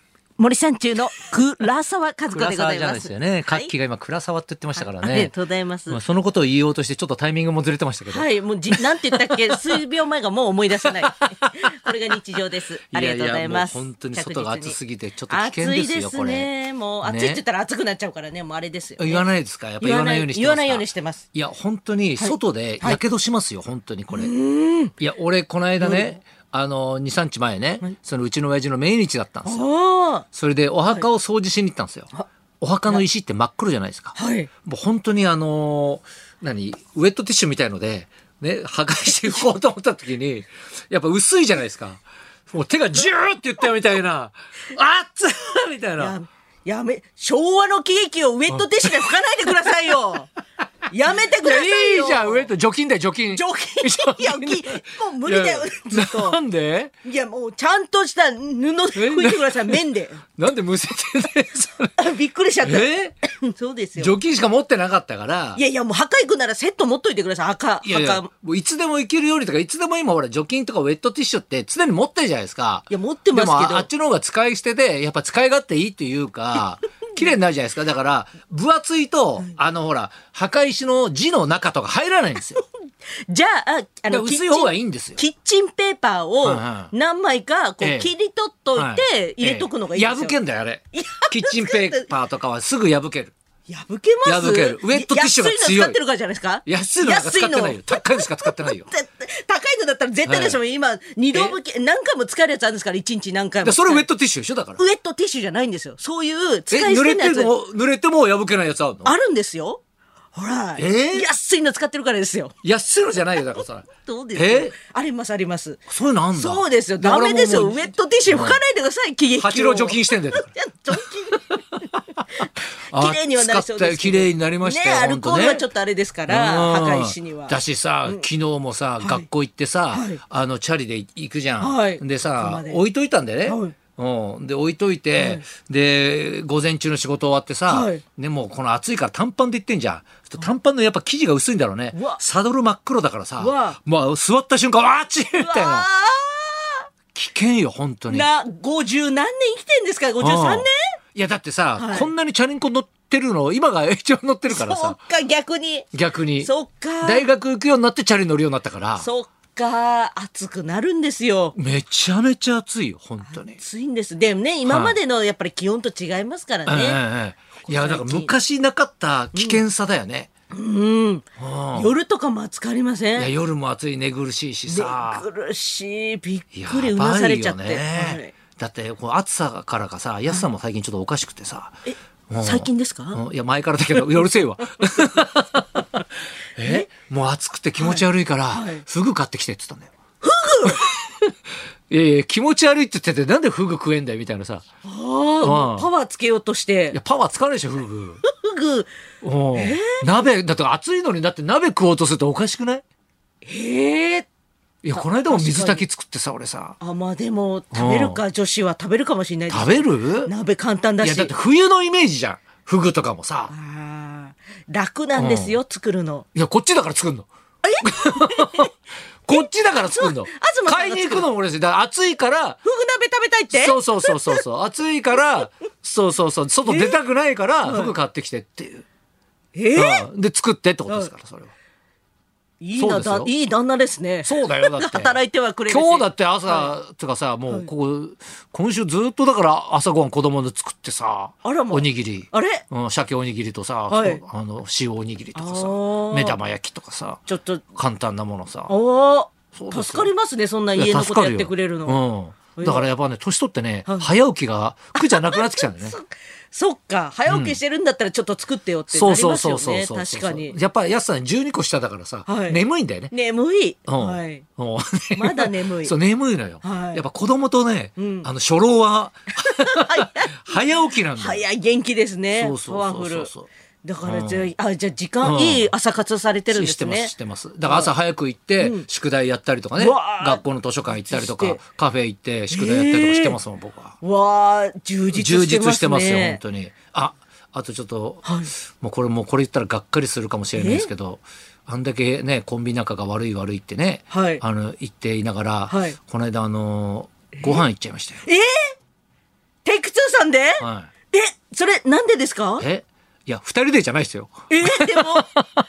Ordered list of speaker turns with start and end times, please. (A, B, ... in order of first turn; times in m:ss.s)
0:00.4-0:03.7 A
0:02.3-0:05.3 B
0:04.8-0:06.0 A
0:05.9-0:09.6 B
0:08.1-0:14.8 A
0:11.0-0:11.7 B
0:12.9-0:16.5 B
0:15.3-0:19.2 A
0:17.0-0:17.4 B
0:19.0-0:24.3 B
0:19.8-0:21.2 A
0:22.2-0:23.0 A
0:24.1-0:24.9 A
0:25.0-0:29.6 B
0:25.8-0:26.1 A
0:29.4-0:30.2 A
0:30.3-0:46.2 B
0:34.2-0:34.5 A
0:46.0-0:50.3 A
0:48.5-0:49.1 B
0:50.9-0:52.5 A
0:51.4-0:56.9 B
0:53.3-0:56.4 A
0:57.0-1:00.2 A
0:58.9-0:59.8 B
1:00.4-1:02.0 B
1:02.0-1:04.1 A
1:02.6-1:03.2 B
1:04.0-1:05.6 B
1:05.6-1:08.3 A
1:07.8-1:22.6 B
1:12.9-1:13.9 A
1:23.3-1:30.4 A
1:24.1-1:25.2 B
1:26.4-1:26.9 B
1:27.8-1:28.1 B
1:28.7-1:33.3 B
1:30.9-1:32.1 A
1:33.7-1:44.1 A
1:34.2-1:36.0 B
1:36.6-1:38.9 B
1:40.2-1:40.6 B
1:43.6-1:44.8 B
1:44.8-1:47.5 A
1:46.7-1:49.1 B
1:49.0-1:49.8 A
1:50.3-1:52.5 A
1:50.8-1:51.3 B
1:52.6-1:54.7 B
1:54.0-2:01.6 A
1:55.9-1:58.6 B
1:59.4-2:01.4 B
2:02.4-2:05.6 B
2:02.4-2:08.2 A
2:06.3-2:25.9 B
2:09.0-2:09.3 A
2:09.9-2:10.2 A
2:11.6-2:12.8 A
2:13.4-2:13.8 A
2:15.1-2:15.4 A
2:17.7-2:18.0 A
2:21.9-2:22.2 A
2:23.4-2:23.8 A
2:25.4-2:26.8 A
2:27.1-2:28.3 B
2:28.1-2:30.7 A
2:30.2-2:35.0 B
2:31.8-2:32.1 A
2:34.5-2:37.2 A
2:35.9-2:36.5 B
2:37.0-2:39.1 B
2:39.0-2:41.5 A
2:41.5-2:43.6 B
2:43.3-2:47.0 A
2:44.6-2:45.0 B
2:46.7-2:50.3 B
2:47.6-2:48.4 A
2:49.3-2:49.6 A
2:50.5-2:53.3 A
2:51.4-2:51.9 B
2:53.2-2:55.2 B
2:54.7-2:58.3 A
2:56.5-3:01.7 B
3:01.9-3:03.2 A
3:02.3-3:05.9 B
3:06.6-3:09.9 B
3:06.6-3:06.9 A
3:07.8-3:08.8 A
3:10.2-3:10.8 A
3:11.9-3:14.6 B
3:14.8-3:17.0 A
3:15.4-3:15.9 B
3:16.9-3:18.2 B
3:18.2-3:18.9 A
3:19.2-3:22.8 B
3:19.5-3:20.0 A
3:23.4-3:24.3 A
3:24.8-3:26.8 B
3:24.9-3:25.8 A
3:26.8-3:31.3 A
3:27.7-3:28.2 B
3:29.5-3:30.3 B
3:31.0-3:33.5 B
3:33.5-3:36.2 A
3:35.2-3:35.6 B
3:36.3-3:37.3 B
3:37.6-3:38.7 A
3:37.8-3:38.7 B
3:39.2-3:42.6 B
3:39.3-3:41.3 A
3:42.6-3:44.4 A
3:43.5-3:48.8 B
3:46.6-3:47.0 A
3:47.6-3:47.9 A
3:49.5-3:50.0 A
3:49.7-3:51.5 B
3:52.6-3:56.7 A
3:52.8-3:53.3 B
3:54.2-4:07.2 B
4:01.4-4:02.6 A
4:03.9-4:04.2 A
4:05.3-4:06.4 A
4:07.3-4:07.6 A
4:07.7-4:08.7 B
4:08.7-4:12.0 A
4:09.5-4:10.1 B
4:10.7-4:16.0 B
4:12.6-4:12.9 A
4:15.0-4:20.6 A
4:17.3-4:17.6 B
4:18.9-4:23.1 B
4:22.3-4:24.4 A
4:23.9-4:31.4 B
4:25.1-4:26.0 A
4:26.6-4:27.0 A
4:28.0-4:28.3 A
4:29.4-4:30.6 A
4:31.2-4:33.3 A
4:32.3-4:33.5 B
4:33.8-4:37.1 A
4:34.0-4:34.5 B
4:35.2-4:35.7 B
4:36.5-4:44.0 B
4:37.6-4:37.9 A
4:38.6-4:38.8 A
4:39.8-4:41.6 A
4:42.5-4:43.4 A
4:44.0-4:46.4 A
4:45.1-4:58.2 B
4:48.2-4:48.5 A
4:50.5-4:50.9 A
4:54.1-4:54.4 A
4:55.7-4:56.0 A
4:58.2-4:58.7 A
4:59.6-5:02.6 A
5:00.6-5:00.9 B
5:02.6-5:05.4 B
5:04.5-5:05.3 A